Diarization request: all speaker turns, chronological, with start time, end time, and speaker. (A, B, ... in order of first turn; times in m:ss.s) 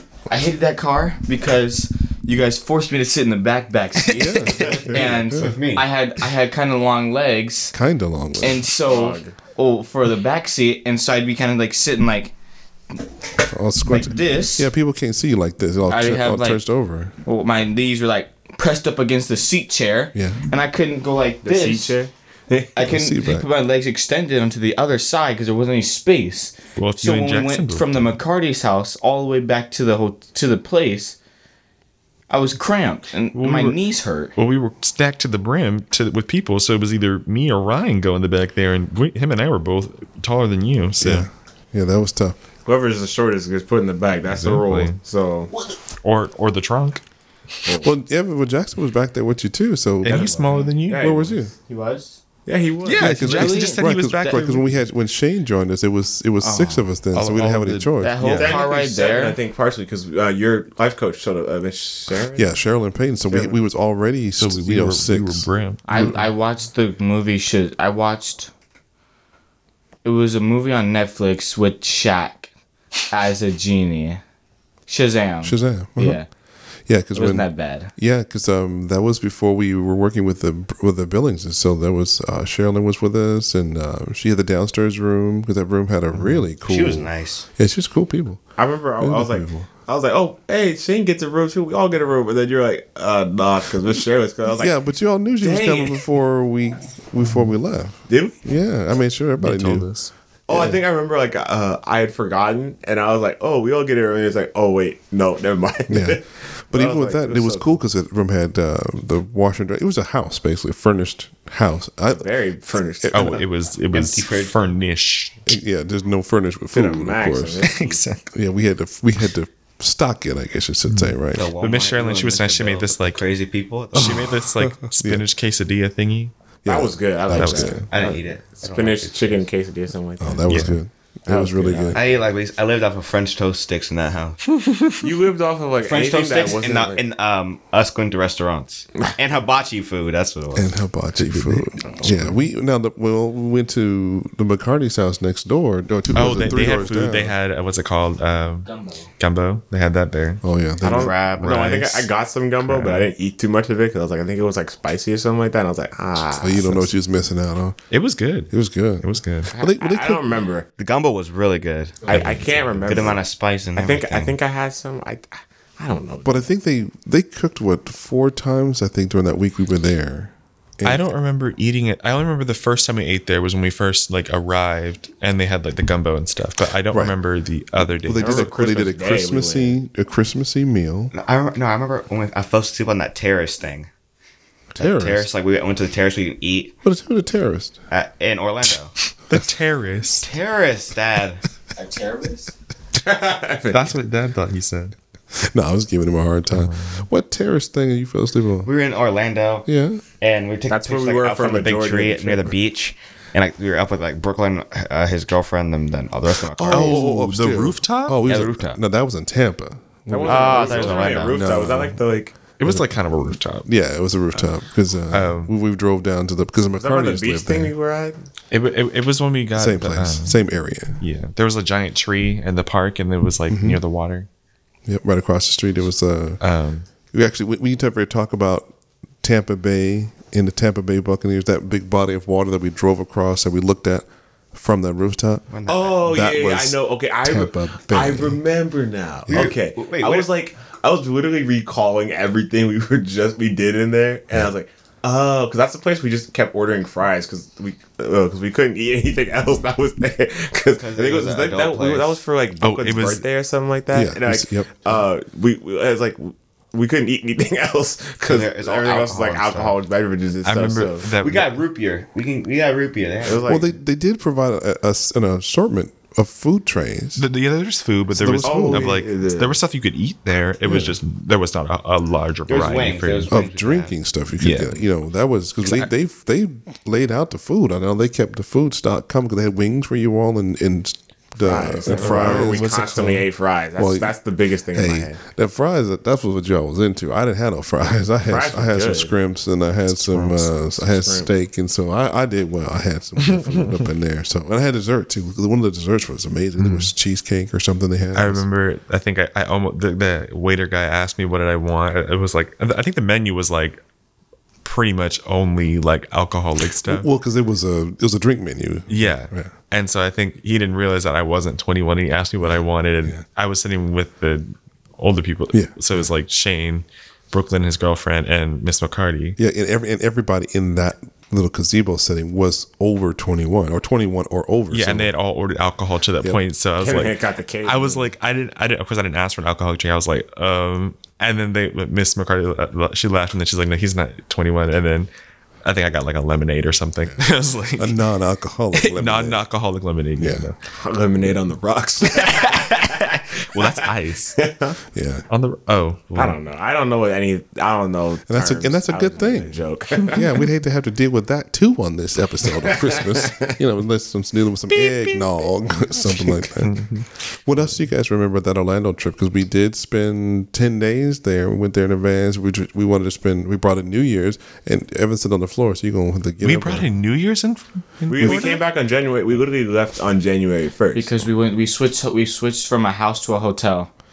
0:00.3-0:07.8 A
0:04.1-0:05.6 B
0:04.6-0:05.1 C
0:04.8-0:05.9 D
0:07.7-0:08.6 B
0:08.4-0:12.3 A
0:08.9-0:09.4 C
0:13.5-0:17.1 B
0:13.9-0:14.7 A
0:15.9-0:16.6 A
0:17.2-0:22.0 A
0:20.1-0:20.4 B
0:21.4-0:22.8 C
0:22.7-0:31.2 A
0:22.8-0:23.5 B
0:26.8-0:28.0 E
0:32.3-0:34.3 A
0:33.4-0:33.8 E
0:34.4-0:41.3 E
0:41.0-0:42.4 B
0:42.7-0:45.5 C
0:44.3-0:45.0 E
0:46.0-0:47.0 E
0:47.6-0:47.9 C
0:47.8-0:50.4 B
0:50.0-0:51.2 E
0:50.0-0:51.4 C
0:50.9-0:51.5 B
0:51.7-0:52.2 A
0:52.5-0:53.2 C
0:52.8-0:54.8 E
0:53.0-0:58.6 B
0:53.0-0:54.4 A
0:56.4-0:56.8 A
0:57.1-0:58.6 E
0:58.0-0:59.4 A
0:58.3-1:02.5 C
1:02.4-1:06.2 B
1:03.3-1:03.6 C
1:04.4-1:06.2 E
1:05.9-1:08.5 A
1:10.0-1:12.5 A
1:13.1-1:14.2 A
1:14.9-1:16.3 A
1:15.4-1:16.2 B
1:16.9-1:28.4 B
1:17.1-1:17.9 A
1:26.6-1:27.5 D
1:28.6-1:34.7 C
1:29.0-1:29.7 B
1:34.6-1:39.9 B
1:35.4-1:36.0 C
1:38.1-1:38.4 C
1:39.4-1:40.1 E
1:40.5-1:47.7 C
1:40.5-1:40.8 B
1:45.9-1:52.3 B
1:52.1-1:53.4 C
1:53.1-1:55.5 E
1:53.9-1:54.6 D
1:55.5-1:57.7 B
1:56.7-1:58.0 C
1:57.6-1:58.2 E
1:58.3-2:01.5 B
2:00.9-2:03.2 E
2:01.3-2:04.3 D
2:03.9-2:05.2 B
2:03.9-2:06.3 E
2:06.6-2:07.8 B
2:06.7-2:10.6 C
2:07.3-2:07.8 E
2:07.9-2:09.4 D
2:10.2-2:12.0 B
2:10.5-2:10.8 E
2:11.3-2:12.2 C
2:11.7-2:14.4 D
2:14.6-2:15.0 E
2:15.0-2:17.0 C
2:15.8-2:20.7 D
2:20.5-2:27.4 B
2:21.2-2:22.3 E
2:26.1-2:30.4 E
2:28.7-2:29.1 A
2:30.4-2:31.2 B
2:30.8-2:36.9 C
2:30.8-2:32.1 D
2:31.4-2:31.9 E
2:32.6-2:33.1 E
2:36.4-2:37.8 B
2:37.9-2:39.5 E
2:38.5-2:40.4 B
2:39.5-2:40.7 C
2:40.8-2:42.1 D
2:42.0-2:43.2 C
2:42.1-2:42.9 E
2:42.9-2:44.4 D
2:43.8-2:46.4 C
2:46.2-2:51.0 B
2:50.8-2:58.5 E
2:57.8-3:01.1 B
2:58.1-2:59.8 C
3:01.1-3:03.9 D
3:04.8-3:05.3 B
3:04.8-3:06.8 D
3:06.8-3:07.8 B
3:07.9-3:08.9 D
3:09.3-3:10.3 E
3:10.2-3:11.4 D
3:11.8-3:12.5 A
3:13.0-3:13.9 C
3:13.7-3:15.0 E
3:15.4-3:18.7 B
3:16.5-3:17.1 E
3:18.6-3:19.7 D
3:19.7-3:20.0 B
3:20.2-3:27.1 D
3:20.7-3:22.5 C
3:26.5-3:30.7 B
3:26.7-3:28.2 E
3:28.2-3:28.8 D
3:30.1-3:32.3 C
3:30.3-3:31.4 D
3:30.5-3:31.1 E
3:31.3-3:32.0 B
3:32.6-3:33.7 E
3:32.6-3:32.9 B
3:33.7-3:37.7 B
3:35.1-3:35.5 E
3:36.8-3:38.2 C
3:38.5-3:40.4 E
3:39.6-3:41.0 B
3:41.0-3:44.3 E
3:43.5-3:43.8 B
3:44.9-3:46.4 B
3:46.4-3:46.9 E
3:47.1-3:48.7 B
3:49.2-3:55.5 B
3:55.5-3:56.1 D
3:55.7-4:21.1 C
3:56.0-3:58.4 B
3:59.3-3:59.5 B
3:59.3-4:00.3 D
4:10.8-4:12.2 D
4:12.6-4:13.2 E
4:13.9-4:15.1 B
4:18.2-4:19.8 D
4:20.4-4:21.6 E
4:21.2-4:23.5 D
4:23.2-4:23.7 C
4:23.4-4:27.2 B
4:27.2-4:33.4 E
4:28.1-4:29.0 B
4:28.4-4:29.6 C
4:30.6-4:31.0 B
4:32.5-4:33.9 D
4:33.3-4:42.7 B
4:34.4-4:34.8 E
4:35.6-4:35.9 E
4:41.4-4:45.2 C
4:41.9-4:43.3 E
4:43.8-4:44.2 B
4:44.7-4:58.4 B
4:48.3-4:49.1 C
4:50.0-4:50.4 E
4:50.3-4:51.3 C
4:56.6-4:56.9 E
4:58.2-5:03.8 E
5:04.6-5:07.1 E
5:06.8-5:09.5 B
5:08.9-5:19.4 E
5:12.4-5:13.2 B
5:19.4-5:25.1 B
5:24.7-5:35.1 E
5:26.8-5:28.1 C
5:35.6-5:38.0 E
5:37.8-5:39.4 B
5:38.7-5:40.6 E
5:40.2-5:40.5 B
5:40.8-5:43.8 C
5:43.5-5:44.4 E
5:44.4-5:44.8 C
5:44.9-5:45.2 B
5:45.3-5:46.4 E
5:46.2-5:50.4 C
5:48.3-5:49.6 B
5:50.1-6:06.9 B
5:52.4-5:53.5 C
5:56.5-5:57.1 E
6:06.4-6:08.6 E
6:08.1-6:11.2 C
6:08.1-6:08.5 B
6:10.9-6:13.9 A